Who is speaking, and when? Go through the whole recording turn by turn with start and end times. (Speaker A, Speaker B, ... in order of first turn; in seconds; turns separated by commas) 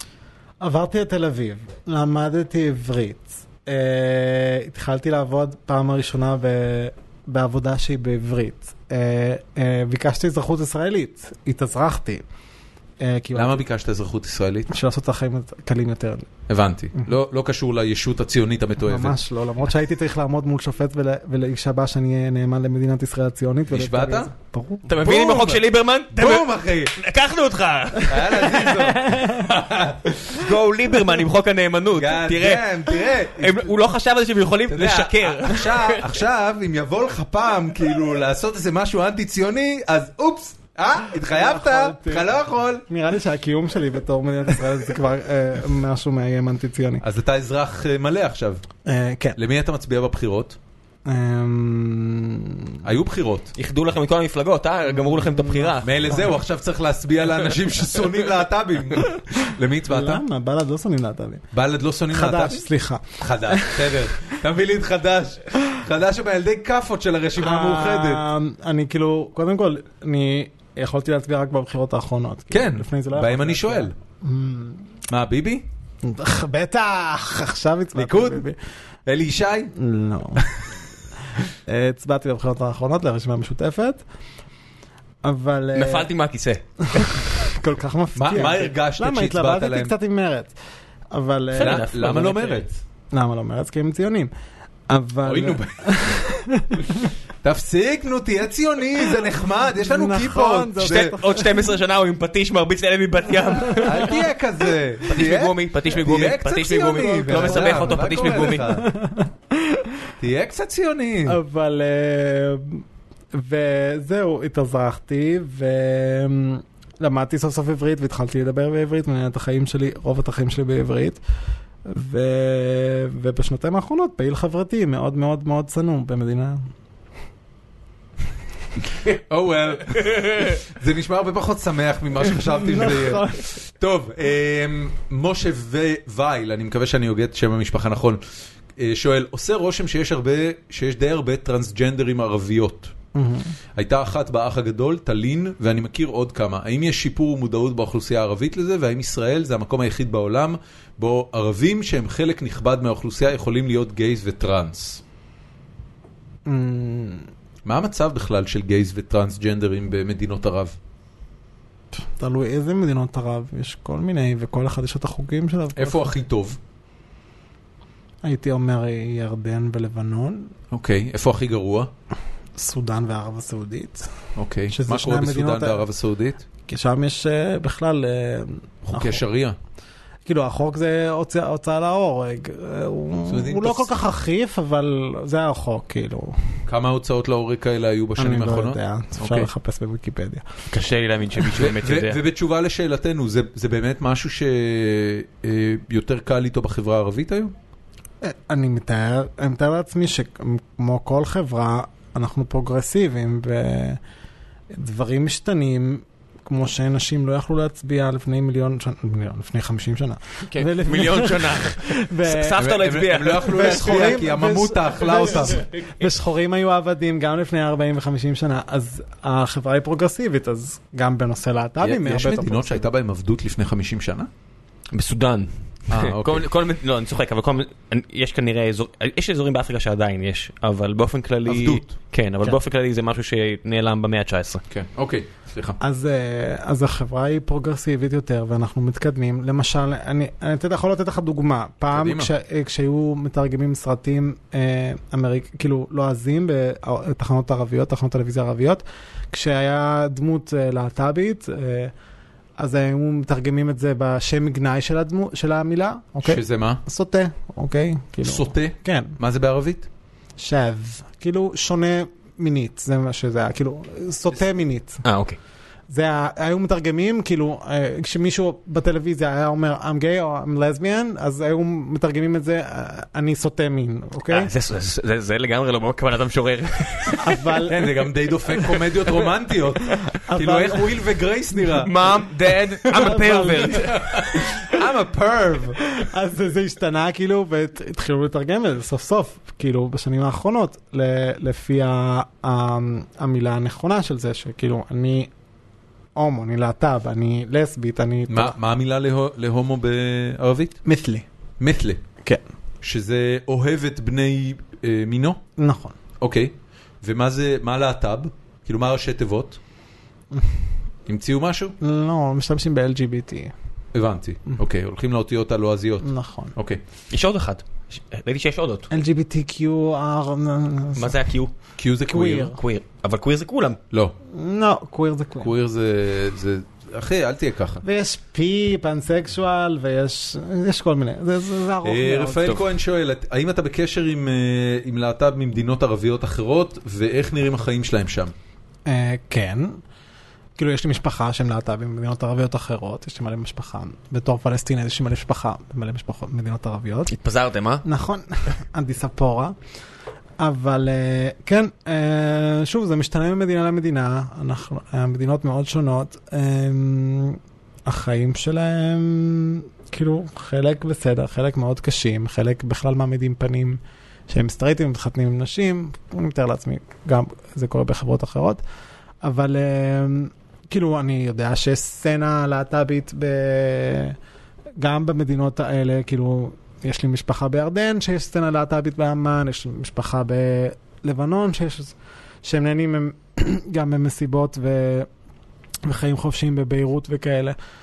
Speaker A: 0.6-12.2, Speaker A: 13.0-13.6, Speaker B: 13.3-14.7, Speaker A: 14.7-16.3, Speaker B: 16.5-19.2, Speaker A: 18.8-24.9, Speaker B: 23.7-24.3, Speaker C: 24.9-28.9, Speaker B: 24.9-27.0, Speaker B: 28.1-30.4, Speaker A: 28.6-29.6, Speaker C: 30.2-36.0, Speaker B: 32.0-33.8, Speaker B: 34.7-42.9, Speaker A: 41.1-42.3, Speaker A: 42.9-47.0, Speaker B: 47.0-48.6, Speaker A: 48.9-49.4, Speaker B: 49.4-50.6, Speaker A: 51.1-52.8, Speaker B: 52.8-53.5, Speaker C: 53.6-56.1, Speaker A: 54.9-56.3, Speaker B: 55.8-60.2, Speaker A: 59.9-61.5, Speaker B: 61.5-62.6, Speaker A: 62.1-64.1, Speaker B: 63.2-68.2, Speaker A: 67.4-74.9, Speaker B: 72.5-73.9, Speaker B: 75.1-75.7, Speaker A: 76.0-78.6, Speaker B: 78.0-78.5, Speaker B: 79.1-79.7, Speaker A: 79.8-80.5, Speaker A: 81.4-84.0, Speaker A: 85.2-86.1, Speaker C: 85.7-87.5, Speaker A: 86.9-90.5, Speaker B: 88.2-89.9, Speaker A: 91.1-92.0, Speaker C: 91.5-92.7, Speaker B: 91.6-92.8, Speaker A: 93.1-94.3, Speaker A: 94.9-97.1, Speaker B: 95.2-96.1, Speaker B: 97.4-101.2, Speaker A: 99.7-101.7, Speaker C: 100.8-104.2, Speaker A: 103.7-104.1, Speaker B: 103.8-108.9, Speaker C: 105.1-108.7, Speaker A: 107.4-110.0, Speaker B: 110.2-111.4, Speaker A: 111.3-121.2, Speaker A: 121.8-126.6, Speaker B: 129.1-138.2, Speaker A: 132.3-133.6, Speaker B: 138.8-142.9, Speaker A: 143.1-143.5, Speaker B: 143.8-155.0, Speaker A: 156.5-157.3, Speaker B: 157.7-160.8, Speaker A: 161.9-166.1, Speaker B: 165.8-166.6, Speaker A: 168.2-170.5, Speaker B: 170.7-171.9, Speaker A: 172.6-174.1, Speaker B: 174.4-176.4, Speaker A: 174.7-175.8, Speaker A: 176.7-179.2, Speaker B: 178.8-179.6, Speaker A: 180.2-186.6, Speaker B: 183.3-183.9, Speaker B: 186.7-189.5, Speaker A: 188.2-190.5, Speaker C: 190.7-192.2, Speaker B: 191.5-197.5, Speaker A: 198.2-204.0, Speaker A: 204.7-212.6, Speaker C: 210.5-214.2, Speaker B: 212.6-215.7, Speaker A: 213.5-222.8, Speaker C: 215.6-215.8, Speaker B: 221.8-224.3, Speaker C: 224.9-234.6, Speaker B: 225.9-226.5, Speaker B: 231.5-231.9, Speaker B: 234.7-235.8, Speaker A: 235.8-251.9, Speaker B: 241.9-242.3, Speaker A: 252.6-259.2, Speaker B: 256.2-256.8, Speaker B: 258.2-259.9, Speaker A: 260.4-265.0, Speaker C: 265.0-265.4, Speaker A: 265.9-274.5, Speaker C: 274.3-277.4, Speaker A: 277.2-278.1, Speaker B: 277.7-285.8, Speaker A: 280.2-280.9, Speaker C: 281.8-284.2, Speaker A: 282.9-284.0, Speaker A: 285.8-295.3, Speaker A: 296.1-298.6, Speaker B: 298.3-300.8, Speaker A: 300.9-301.2, Speaker B: 301.6-302.0, Speaker B: 302.8-305.4, Speaker A: 305.6-306.0, Speaker B: 306.2-309.6, Speaker A: 310.3-310.6, Speaker B: 311.1-311.8, Speaker A: 311.8-313.5, Speaker B: 313.9-316.8, Speaker A: 316.0-316.6, Speaker C: 317.1-318.9, Speaker A: 318.9-321.3, Speaker C: 321.0-321.5, Speaker B: 321.8-322.5, Speaker C: 322.1-323.8, Speaker A: 322.1-322.6, Speaker A: 324.3-325.5, Speaker B: 325.4-327.8, Speaker A: 327.8-332.6, Speaker B: 331.8-338.3, Speaker A: 338.9-339.8, Speaker A: 340.6-347.1, Speaker C: 347.1-347.8, Speaker A: 347.8-349.6, Speaker A: 350.4-368.6, Speaker A: 369.2-374.2, Speaker A: 374.8-385.1, Speaker A: 385.8-387.6